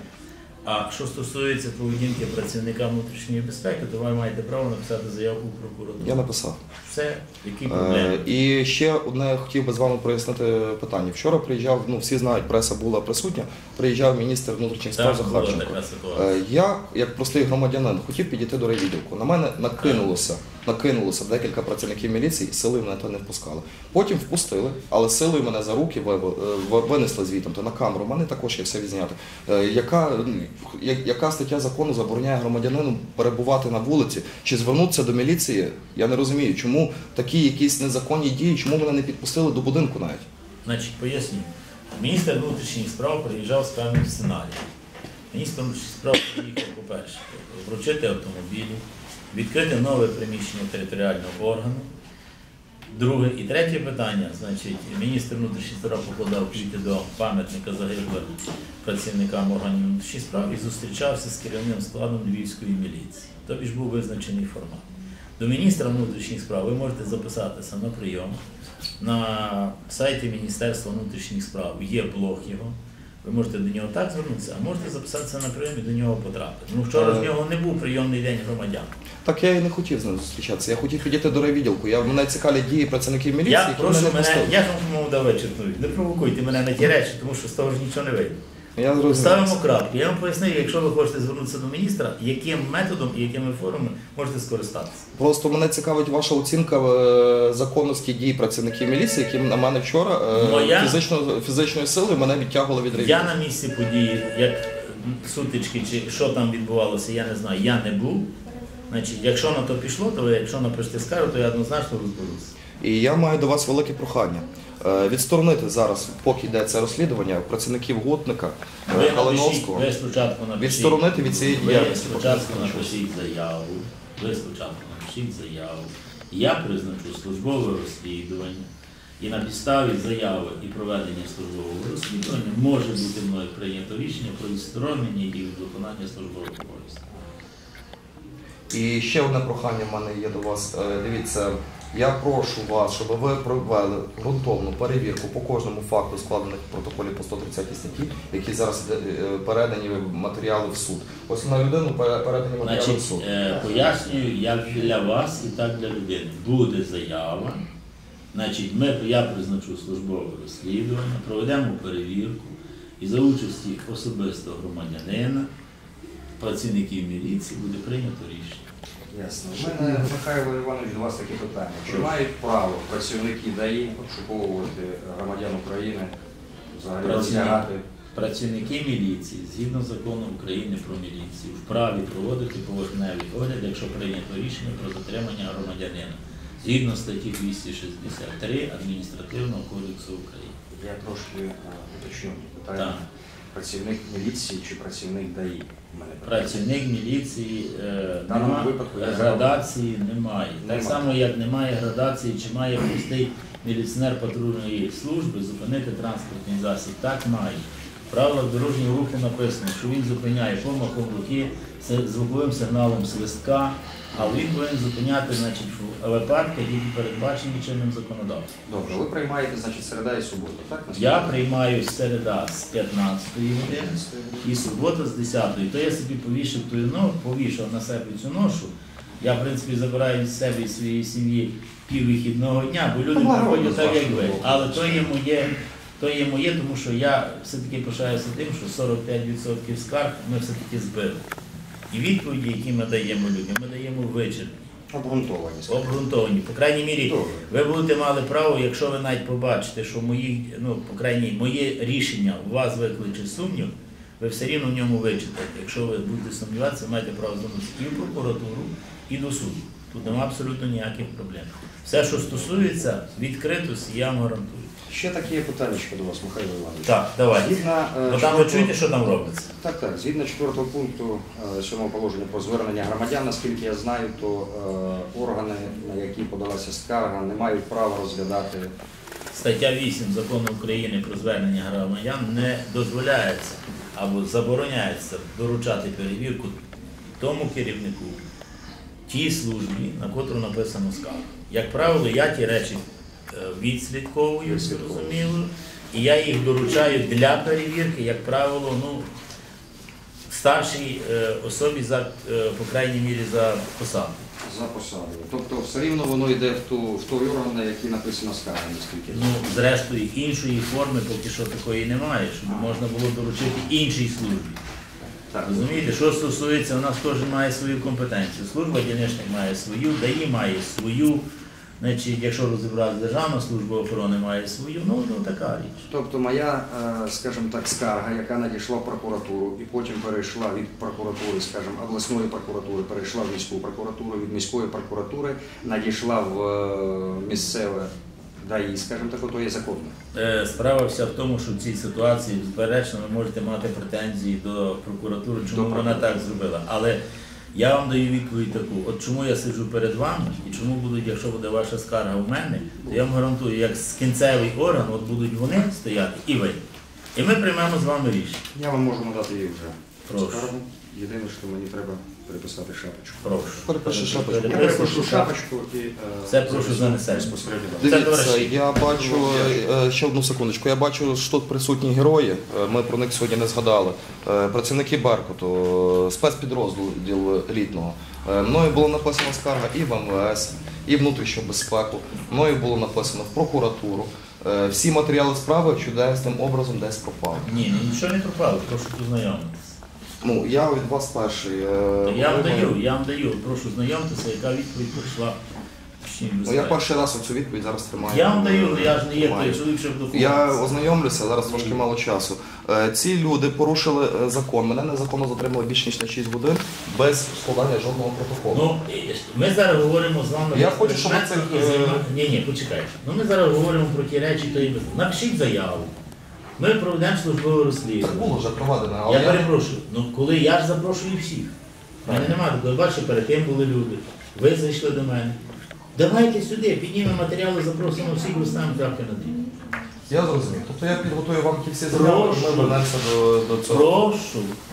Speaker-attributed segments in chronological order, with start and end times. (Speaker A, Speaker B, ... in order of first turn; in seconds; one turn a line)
Speaker A: 0.7-6.3
Speaker B: 6.0-6.6
Speaker A: 6.8-8.3
Speaker B: 7.7-40.2
Speaker A: 14.9-16.4
Speaker A: 19.8-20.1
Speaker A: 40.6-44.6
Speaker A: 45.3-51.9
Speaker A: 52.9-64.8
Speaker A: 65.4-68.4
Speaker A: 69.0-78.9
Speaker B: 76.9-77.3
Speaker B: 79.2-84.5
Speaker A: 83.5-88.4
Speaker B: 88.8-89.6
Speaker A: 89.0-95.1
Speaker B: 95.2-103.3
Speaker A: 100.3-101.0
Speaker A: 102.9-108.3
Speaker A: 108.9-112.5
Speaker B: 112.8-119.9
Speaker A: 118.9-128.7
Speaker B: 120.6-123.0
Speaker A: 129.2-137.0
Speaker B: 138.7-153.3
Speaker A: 152.6-157.6
Speaker A: 158.3-165.5
Speaker A: 166.4-168.6
Speaker C: 169.1-176.1
Speaker A: 171.9-172.2
Speaker C: 176.7-177.8
Speaker A: 177.0-190.6
Speaker C: 190.7-193.0
Speaker A: 192.8-193.0
Speaker C: 193.5-196.7
Speaker A: 196.2-218.6
Speaker C: 198.3-199.6
Speaker C: 200.6-201.1
Speaker C: 218.7-221.4
Speaker A: 220.9-241.2
Speaker C: 223.6-224.5
Speaker B: 233.1-234.8
Speaker A: 241.9-244.7
Speaker C: 244.9-246.0
Speaker A: 245.7-264.7
Speaker C: 247.0-247.5
Speaker C: 264.9-268.7
Speaker A: 266.9-269.5
Speaker C: 269.6-278.7
Speaker A: 279.3-286.6
Speaker A: 287.2-288.2
Speaker A: 289.1-299.1
Speaker C: 294.4-295.2
Speaker A: 300.3-304.3
Speaker C: 304.4-309.4
Speaker A: 309.1-314.6
Speaker C: 312.5-312.8
Speaker C: 315.3-315.8
Speaker A: 315.5-321.2
Speaker A: 321.8-325.9
Speaker C: 325.9-339.9
Speaker A: 340.1-347.0
Speaker C: 345.5-346.3
Speaker A: 347.5-356.6
Speaker A: 357.2-358.4
Speaker C: 358.5-363.4
Speaker A: 360.1-360.5
Speaker A: 363.2-365.3
Speaker B: 363.6-365.3
Speaker C: 364.4-368.1
Speaker A: 366.3-368.6
Speaker B: 367.8-387.5
Speaker C: 368.7-369.6
Speaker A: 387.4-389.8
Speaker B: 390.2-392.8
Speaker A: 392.0-395.4
Speaker A: 396.0-396.8
Speaker B: 396.5-399.6
Speaker A: 398.0-401.8
Speaker B: 400.1-408.7
Speaker A: 408.5-415.9
Speaker B: 410.5-412.1
Speaker A: 416.6-418.4
Speaker B: 418.0-419.5
Speaker A: 419.1-421.5
Speaker B: 422.0-422.4
Speaker A: 422.1-425.4
Speaker A: 425.9-429.4
Speaker B: 430.1-434.0
Speaker A: 431.9-432.8
Speaker A: 433.7-434.6